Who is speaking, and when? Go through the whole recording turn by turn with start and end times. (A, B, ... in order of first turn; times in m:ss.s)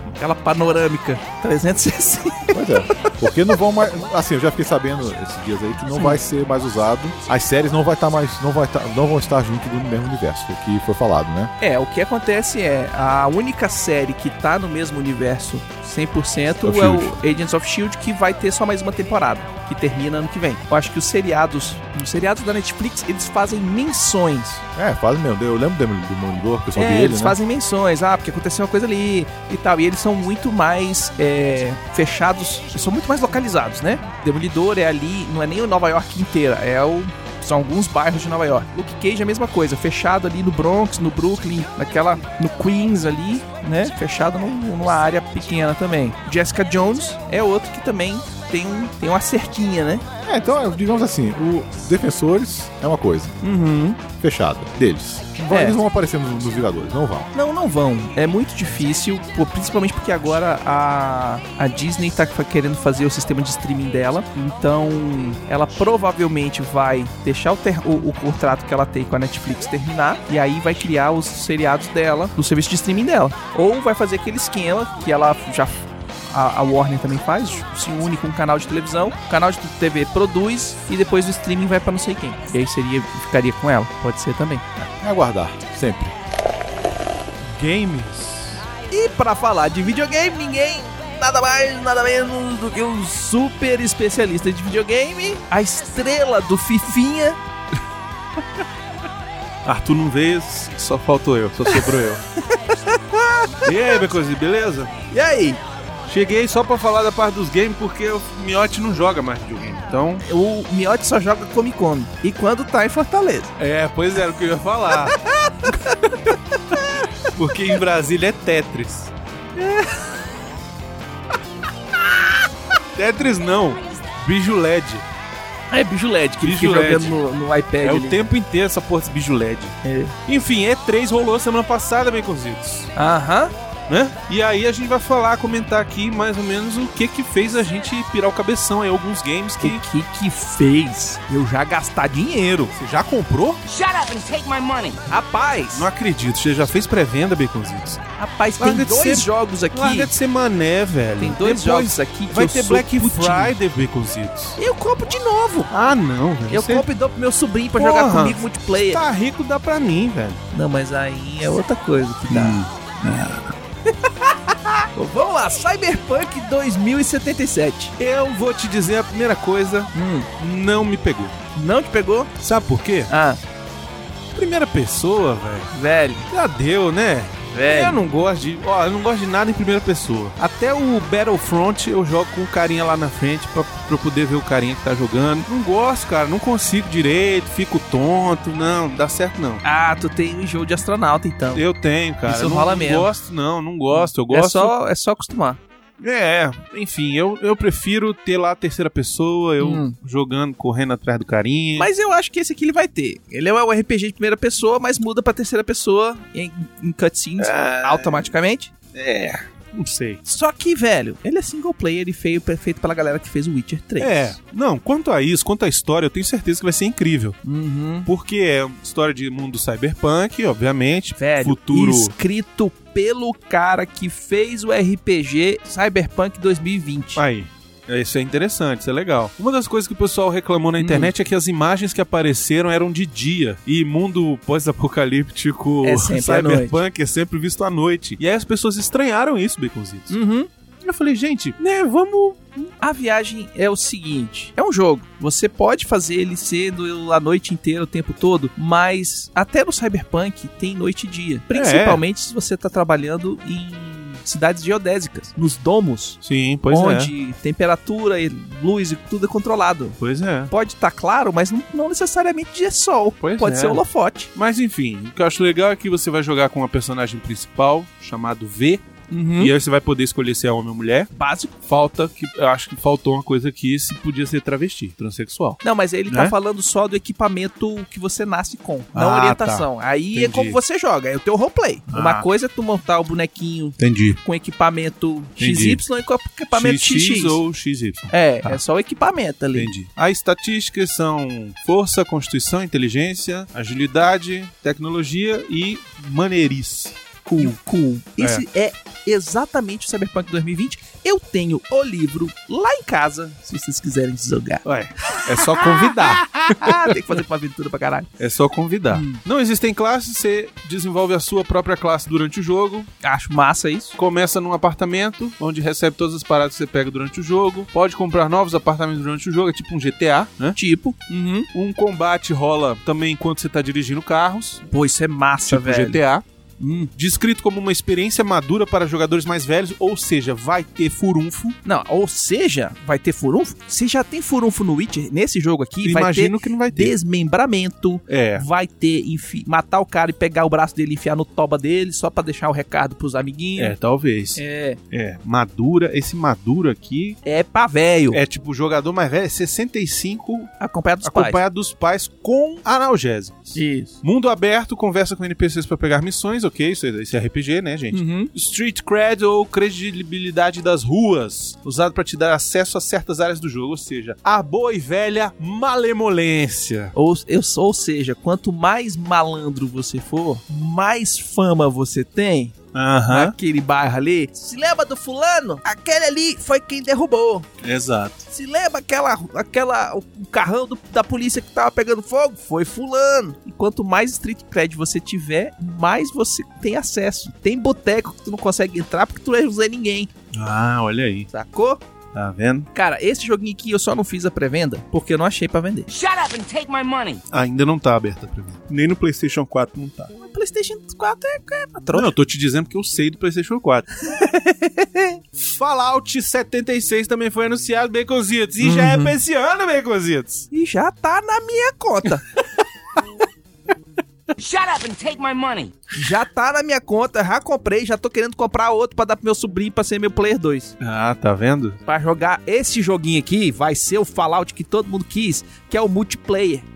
0:00.2-0:03.1 A
0:02.5-0:11.5 B
0:11.6-0:24.6 A
0:16.6-0:17.2 B
0:24.8-0:27.4 B
0:26.8-0:50.0 A
0:50.2-0:53.4 B
0:53.4-0:54.0 A
0:54.1-0:57.3 B
0:55.5-0:55.8 A
0:57.3-1:24.6 A
1:24.8-1:26.1 B
1:27.4-1:28.6 C
1:28.9-1:37.4 A
1:39.6-1:42.2 C
1:41.7-1:44.0 A
1:43.6-1:44.9 C
1:45.1-1:45.6 A
1:46.1-1:50.2 C
1:50.2-1:53.5 A
1:53.6-1:55.2 C
1:55.0-1:57.0 A
1:57.3-1:59.1 C
1:59.6-2:00.3 A
2:03.0-2:05.1 C
2:05.7-2:08.2 A
2:06.4-2:07.2 C
2:07.8-2:12.9 C
2:09.8-2:10.1 A
2:13.0-2:13.5 A
2:13.9-2:19.8 C
2:19.6-2:22.7 A
2:22.8-2:23.6 C
2:23.7-2:25.0 D
2:25.1-2:25.9 A
2:25.7-2:28.0 C
2:28.2-2:30.1 A
2:28.6-2:34.6 C
2:31.2-2:33.6 A
2:34.6-2:35.7 A
2:35.7-2:36.9 C
2:36.5-2:39.0 A
2:37.8-2:40.4 C
2:40.5-2:42.7 A
2:42.3-2:43.5 C
2:44.9-2:47.9 A
2:48.0-2:51.4 C
2:49.9-2:50.3 A
2:51.6-2:52.3 A
2:52.4-2:53.1 C
2:53.1-2:53.4 A
2:54.3-2:55.7 C
2:55.7-2:56.3 A
2:56.3-3:09.6 C
2:57.5-2:58.0 A
3:09.6-3:11.6 A
3:11.6-3:14.7 C
3:12.3-3:13.1 A
3:13.9-3:15.6 A
3:16.0-3:21.9 C
3:19.6-3:20.0 A
3:21.8-3:28.7 A
3:27.4-3:28.3 C
3:28.9-3:30.2 C
3:30.2-3:34.3 A
3:34.0-3:37.4 C
3:37.4-3:38.1 A
3:38.1-3:42.1 C
3:41.2-3:47.2 A
3:47.2-4:00.2 C
3:50.8-3:51.1 A
3:55.8-3:56.8 A
4:00.1-4:00.5 A
4:00.8-4:02.7 C
4:02.8-4:16.2 A
4:11.5-4:12.0 C
4:16.2-4:17.1 C
4:16.7-4:20.0 A
4:20.0-4:20.5 C
4:20.5-4:24.3 A
4:23.2-4:23.8 C
4:24.4-4:31.1 C
4:29.1-4:29.5 A
4:31.1-4:31.6 A
4:31.7-4:36.3 C
4:35.6-4:47.4 A
4:38.9-4:40.6 C
4:41.9-4:42.3 C
4:43.8-4:44.2 C
4:45.4-4:45.8 C
4:46.5-4:48.6 C
4:48.1-4:49.7 A
4:49.6-4:57.6 C
4:57.4-5:08.1 A
5:04.6-5:07.0 C
5:08.2-5:12.9 C
5:08.9-5:09.2 A
5:13.0-5:14.0 A
5:14.0-5:20.6 C
5:20.6-5:21.5 A
5:21.5-5:24.6 C
5:24.7-5:26.0 A
5:25.5-5:26.2 C
5:26.6-5:26.9 A
5:26.9-5:31.6 C
5:31.6-5:43.8 A
5:35.8-5:37.0 C
5:38.1-5:38.4 C
5:43.6-5:47.2 C
5:44.4-5:44.8 A
5:47.2-5:48.2 A
5:48.1-6:06.9 C
5:50.6-5:51.4 A
5:53.6-5:54.0 A
5:57.9-5:58.3 A
6:07.0-6:12.6 A
6:12.7-6:13.4 C
6:13.1-6:17.5 A
6:17.6-6:18.2 C
6:18.3-6:30.1 A
6:30.3-6:31.3 C
6:31.3-6:31.8 A
6:32.1-6:32.7 C
6:32.7-6:35.9 A
6:35.9-6:37.2 D
6:37.3-6:40.1 C
6:40.2-6:42.1 A
6:41.9-6:43.9 C
6:44.1-6:45.2 A
6:45.4-6:50.5 C
6:48.6-6:49.2 A
6:50.5-6:52.3 A
6:54.4-6:55.8 D
6:56.0-7:00.7 A
7:00.8-7:01.8 C
7:01.9-7:06.7 A